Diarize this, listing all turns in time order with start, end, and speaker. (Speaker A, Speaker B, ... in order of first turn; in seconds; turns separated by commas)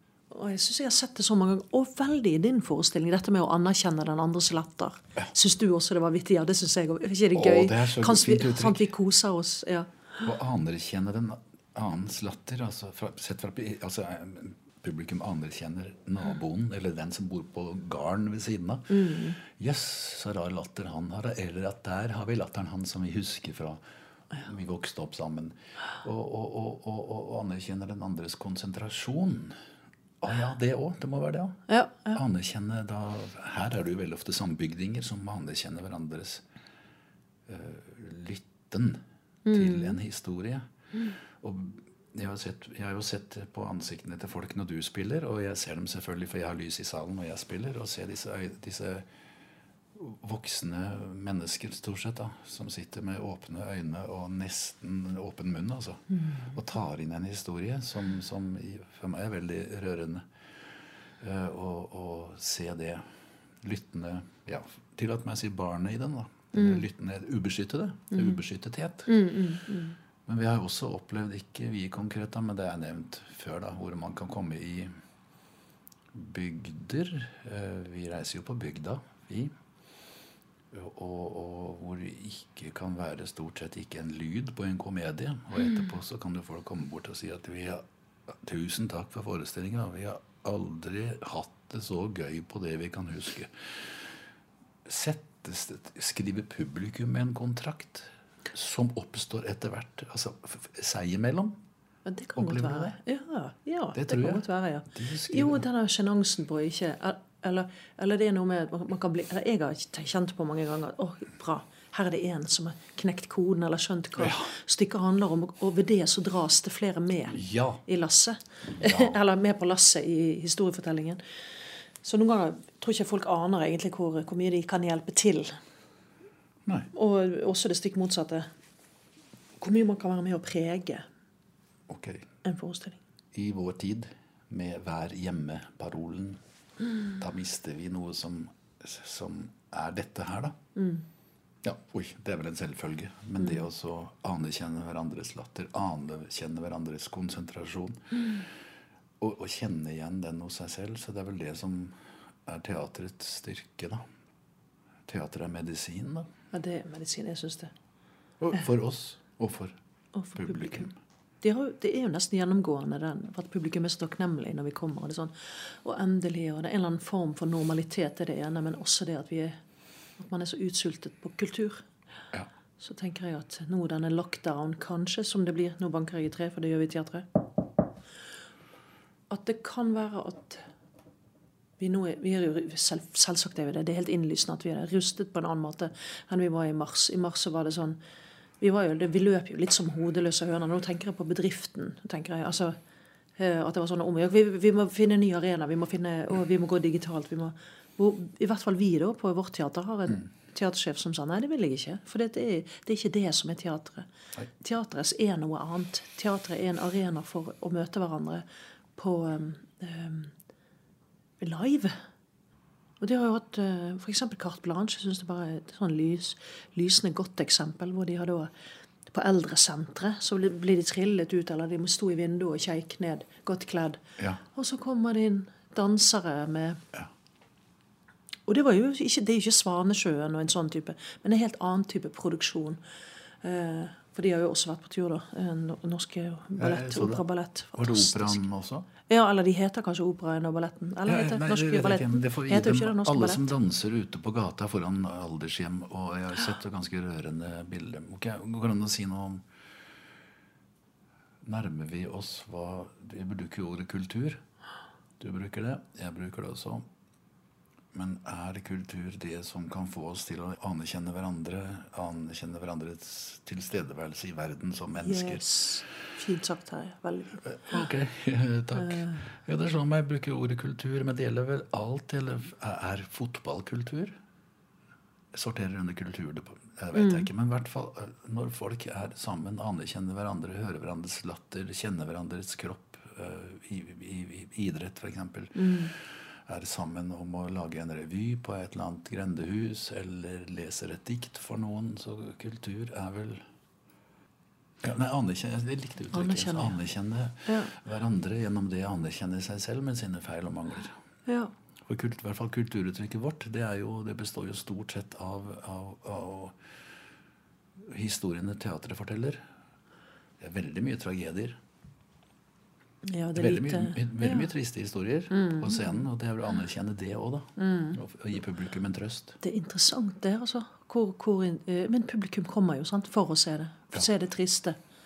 Speaker A: 0.3-10.2, Speaker B: 7.3-8.9, Speaker B: 10.2-23.8, Speaker A: 18.9-19.4, Speaker B: 24.4-29.6, Speaker B: 30.2-31.6, Speaker A: 31.7-32.2, Speaker B: 32.1-36.4, Speaker B: 37.5-40.6, Speaker A: 39.5-40.0, Speaker B: 41.4-49.1, Speaker B: 49.9-60.2, Speaker B: 61.2-69.1, Speaker A: 66.5-66.8, Speaker A: 68.1-68.4, Speaker A: 69.1-70.0, Speaker B: 70.3-74.9, Speaker B: 76.1-79.5, Speaker B: 80.7-94.0, Speaker B: 94.8-101.6, Speaker A: 102.1-121.2, Speaker B: 102.4-103.0, Speaker B: 104.0-105.6, Speaker B: 114.2-114.5, Speaker B: 117.3-117.8, Speaker B: 118.8-119.2, Speaker A: 122.0-125.6, Speaker A: 126.9-128.5, Speaker A: 129.6-131.1, Speaker B: 131.9-132.3, Speaker A: 132.4-133.0, Speaker B: 133.3-136.4, Speaker B: 137.2-140.6, Speaker A: 140.8-141.1, Speaker B: 141.6-148.0, Speaker B: 149.2-154.0, Speaker B: 155.1-156.3, Speaker A: 156.5-157.7, Speaker B: 158.4-159.8, Speaker A: 160.2-160.9, Speaker B: 160.4-160.9, Speaker A: 161.4-169.6, Speaker A: 170.2-171.8, Speaker A: 172.8-177.4, Speaker A: 179.3-180.7, Speaker A: 181.8-188.0, Speaker A: 188.6-192.8, Speaker A: 193.4-204.1, Speaker A: 204.6-208.4, Speaker A: 209.0-210.3, Speaker A: 211.4-212.0, Speaker A: 213.0-218.5, Speaker A: 219.1-224.0, Speaker A: 224.5-226.8, Speaker A: 228.5-232.8, Speaker A: 233.4-238.4, Speaker B: 236.6-238.9, Speaker A: 239.1-243.5, Speaker B: 241.1-249.4, Speaker B: 251.4-254.4, Speaker B: 255.2-256.9, Speaker B: 257.9-265.4, Speaker A: 265.0-267.9, Speaker B: 267.4-274.2, Speaker A: 268.8-269.3, Speaker B: 275.3-293.4, Speaker A: 277.0-277.3, Speaker A: 285.6-285.9, Speaker B: 294.8-300.9, Speaker A: 296.1-296.8, Speaker A: 297.5-297.7, Speaker A: 301.3-301.5, Speaker B: 301.9-306.6, Speaker B: 307.8-309.4, Speaker B: 310.4-311.6, Speaker A: 313.0-314.5, Speaker B: 313.4-319.4, Speaker A: 315.3-316.1, Speaker A: 317.6-318.0, Speaker A: 319.4-324.8